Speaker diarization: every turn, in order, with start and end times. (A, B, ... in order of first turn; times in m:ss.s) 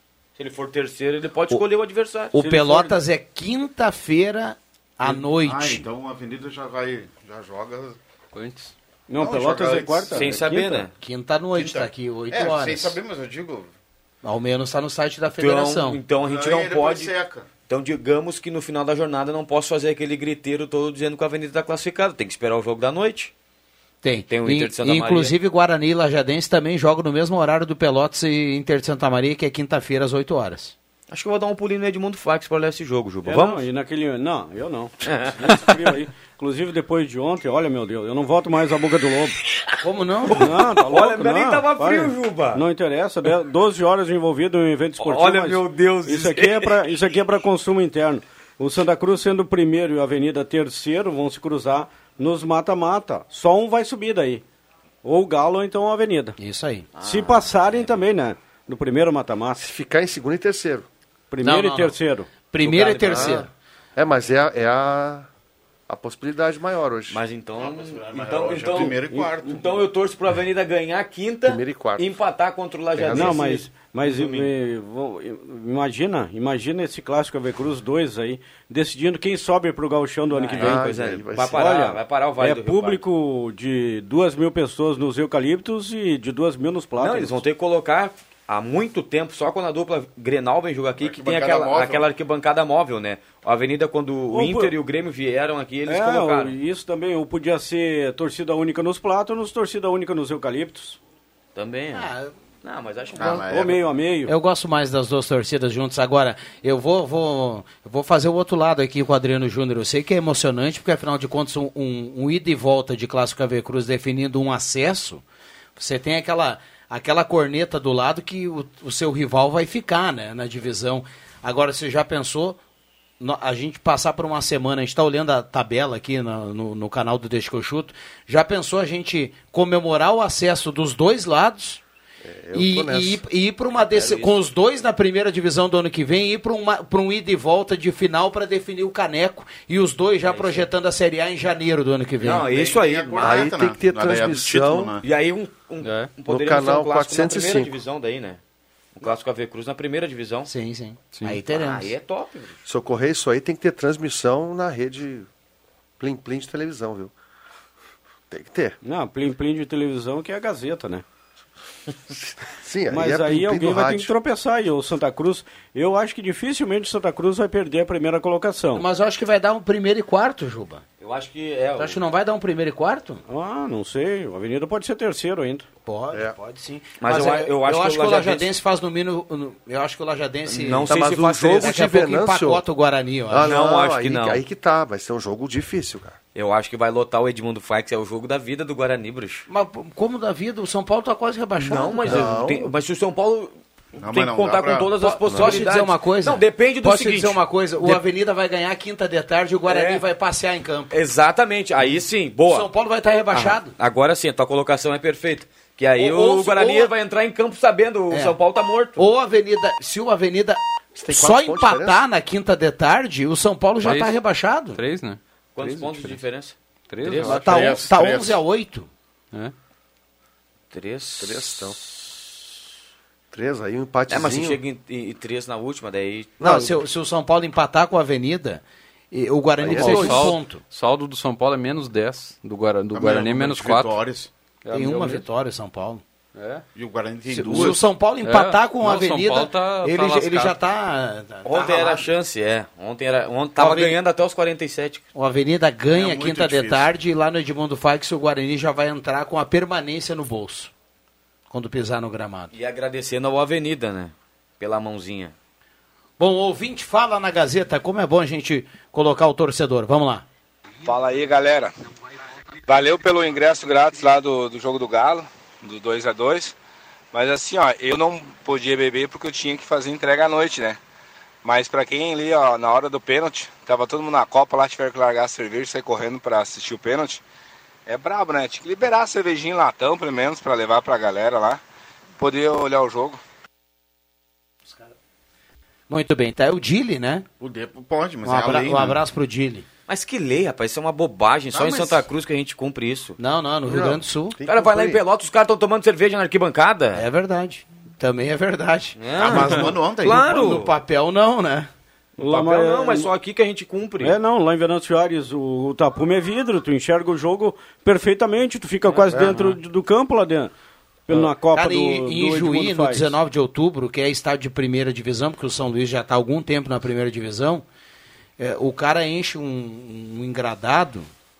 0:00.4-0:02.3 A
0:02.3-0:03.0 B
0:02.3-0:05.8 C
0:05.0-0:08.0 D
0:08.3-0:08.7 E
0:09.1-0:10.9 B
0:09.1-0:10.4 D
0:10.1-0:10.9 A
0:11.0-0:12.9 C
0:11.5-0:13.7 D
0:14.2-0:16.0 C
0:15.3-0:17.1 A
0:16.2-0:17.5 D
0:17.7-0:23.3 A
0:24.0-0:30.7 C
0:24.3-0:25.3 A
0:31.1-0:33.6 A
0:33.2-0:39.4 B
0:35.0-0:35.6 A
0:39.8-0:40.4 C
0:40.3-0:42.6 A
0:40.4-0:54.4 B
0:45.0-0:46.8 A
0:55.0-0:56.4 B
0:56.4-0:56.9 C
0:57.0-0:58.0 A
0:57.0-0:59.7 B
0:59.6-1:00.8 F
1:01.3-1:02.3 B
1:01.4-1:03.5 C
1:02.6-1:03.4 A
1:03.1-1:05.3 F
1:05.9-1:07.2 F
1:07.1-1:14.5 A
1:07.6-1:09.8 D
1:11.4-1:12.0 F
1:12.9-1:13.4 F
1:13.1-1:20.8 B
1:20.3-1:23.0 A
1:20.5-1:21.7 F
1:21.5-1:27.4 B
1:27.0-1:36.5 A
1:31.0-1:32.0 D
1:34.3-1:34.7 B
1:35.9-1:41.0 B
1:41.5-1:42.1 A
1:41.9-1:42.3 C
1:42.6-1:43.5 A
1:43.1-1:43.9 D
1:43.5-1:44.3 B
1:44.3-1:55.2 C
1:55.8-2:02.6 C
2:03.2-2:11.8 C
2:12.2-2:13.2 F
2:12.5-2:22.4 C
2:13.8-2:14.4 A
2:20.2-2:20.7 A
2:22.2-2:23.4 A
2:22.3-2:25.0 D
2:23.2-2:24.9 F
2:25.0-2:28.4 A
2:25.8-2:26.1 E
2:26.3-2:27.7 F
2:28.9-2:30.5 A
2:30.5-2:31.9 C
2:31.1-2:31.4 E
2:31.5-2:32.6 A
2:32.6-2:35.3 F
2:36.0-2:37.1 F
2:38.3-2:38.8 F
2:38.8-2:41.0 B
2:42.1-2:44.1 F
2:42.9-2:48.8 B
2:48.7-2:50.8 C
2:51.0-2:52.0 A
2:51.8-2:53.2 C
2:53.3-2:55.6 B
2:55.8-3:00.9 C
2:57.0-2:58.5 A
3:00.5-3:01.7 A
3:00.8-3:02.6 F
3:01.6-3:03.5 C
3:03.3-3:06.2 F
3:03.4-3:04.4 A
3:06.3-3:09.4 A
3:09.5-3:12.2 C
3:11.6-3:13.5 A
3:11.7-3:12.7 F
3:14.0-3:15.6 D
3:14.0-3:18.0 A
3:15.0-3:20.9 C
3:19.7-3:20.0 A
3:20.9-3:22.7 A
3:22.5-3:23.7 C
3:23.3-3:29.1 A
3:26.0-3:26.9 C
3:29.0-3:34.8 C
3:30.9-3:32.0 F
3:33.8-3:34.2 E
3:34.7-3:36.2 E
3:35.5-3:37.4 A
3:36.9-3:37.7 E
3:37.2-3:38.4 D
3:37.3-3:38.9 C
3:40.7-3:42.3 A
3:41.2-3:41.8 F
3:43.3-3:44.6 F
3:44.1-3:46.3 A
3:46.4-3:46.8 F
3:46.4-3:50.6 C
3:49.6-3:54.0 E
3:49.6-3:50.3 F
3:52.9-3:54.3 D
3:54.6-3:55.2 E
3:54.7-3:56.0 C
3:56.3-3:56.6 E
3:56.7-3:57.8 D
3:57.3-4:02.1 C
3:58.2-4:00.6 E
4:01.4-4:05.0 A
4:03.6-4:03.9 C
4:05.1-4:10.7 C
4:05.9-4:06.9 D
4:11.5-4:12.5 C
4:12.5-4:15.3 A
4:16.2-4:20.2 C
4:20.8-4:21.7 G
4:22.7-4:26.5 G
4:27.1-4:30.8 G
4:31.4-4:37.2 G
4:37.8-4:41.6 G
4:42.2-4:43.2 G
4:45.9-4:47.2 C
4:47.4-4:49.0 D
4:48.2-4:49.6 C
4:49.9-4:53.2 A
4:51.5-4:52.0 D
4:53.2-4:54.4 C
4:53.6-4:55.0 F
4:54.4-4:57.0 A
4:56.9-5:01.7 C
4:59.0-5:00.7 A
4:59.2-5:00.6 D
5:02.2-5:03.1 B
5:02.2-5:04.2 A
5:04.0-5:10.5 B
5:08.9-5:09.2 A
5:09.1-5:09.4 F
5:11.1-5:13.1 B
5:11.1-5:17.6 C
5:18.4-5:21.1 C